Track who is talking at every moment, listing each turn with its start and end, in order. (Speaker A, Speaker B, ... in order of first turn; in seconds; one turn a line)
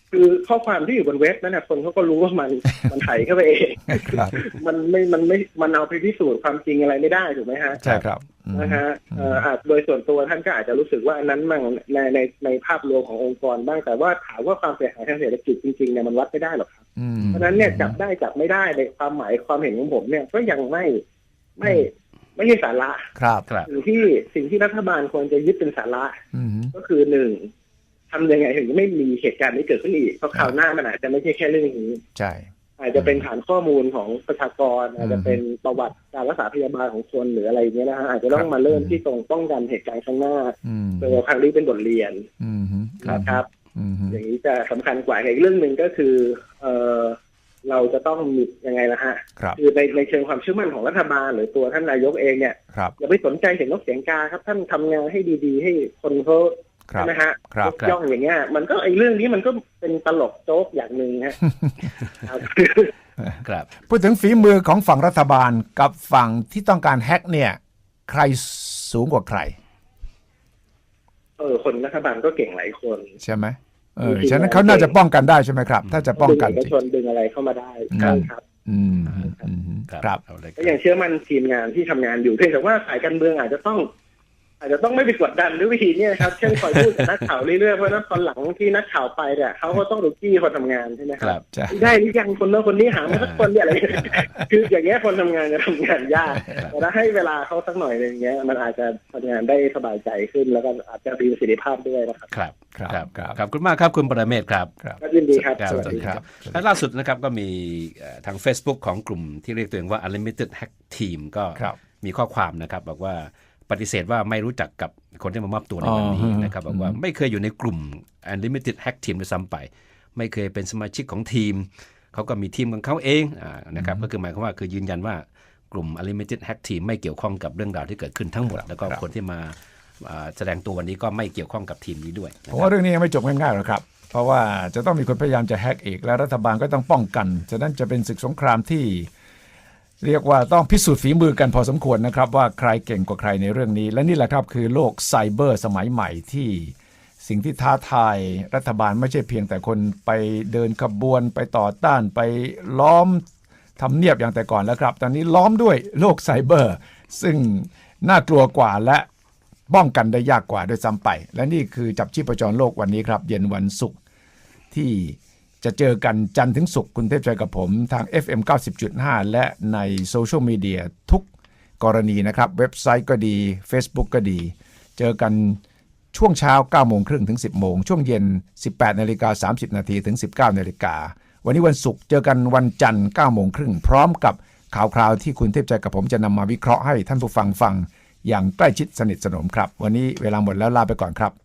Speaker A: 0.1-7.8
Speaker B: 3.9-4.4
Speaker B: 7.8-9.4
Speaker A: 8.5-16.7
Speaker B: 17.0-17.9
Speaker C: 17.2-17.5
Speaker A: 17.3-21.0
Speaker A: 21.6-23.1
Speaker B: 23.1-23.4
Speaker A: 23.6-26.2
Speaker B: 26.3-26.7
Speaker A: 26.7-27.5
Speaker A: 28.1-32.0
Speaker B: 32.1-33.2
Speaker A: 32.8-42.2
Speaker B: 35.0-35.4
Speaker B: 38.3-39.0
Speaker B: 40.6-41.2
Speaker B: 42.4-44.2
Speaker A: 43.0-43.5
Speaker A: 44.1-61.4
Speaker B: 56.9-57.7
Speaker A: 62.2-62.9
Speaker C: 63.4-63.7
Speaker B: 63.9-69.5
Speaker A: 71.4-73.1
Speaker B: 73.2-76.7
Speaker A: 74.0-75.0
Speaker A: 76.2-78.4
Speaker B: 77.9-80.2
Speaker C: 79.0-79.3
Speaker C: 79.9-80.7
Speaker A: 80.6-83.9
Speaker A: 84.6-102.3
Speaker B: 91.5-91.8
Speaker C: 93.1-94.3
Speaker C: 102.3-104.7
Speaker B: 102.7-103.4
Speaker B: 104.8-106.6
Speaker A: 105.0-106.1
Speaker C: 105.6-132.7
Speaker B: 115.8-117.0
Speaker B: 123.8-124.1
Speaker B: 128.5-129.0
Speaker B: 132.5-139.1
Speaker B: 140.0-153.2
Speaker B: 153.8-159.1
Speaker B: 159.7-164.0
Speaker B: 164.7-171.3
Speaker B: 171.8-175.6
Speaker B: 176.1-191.3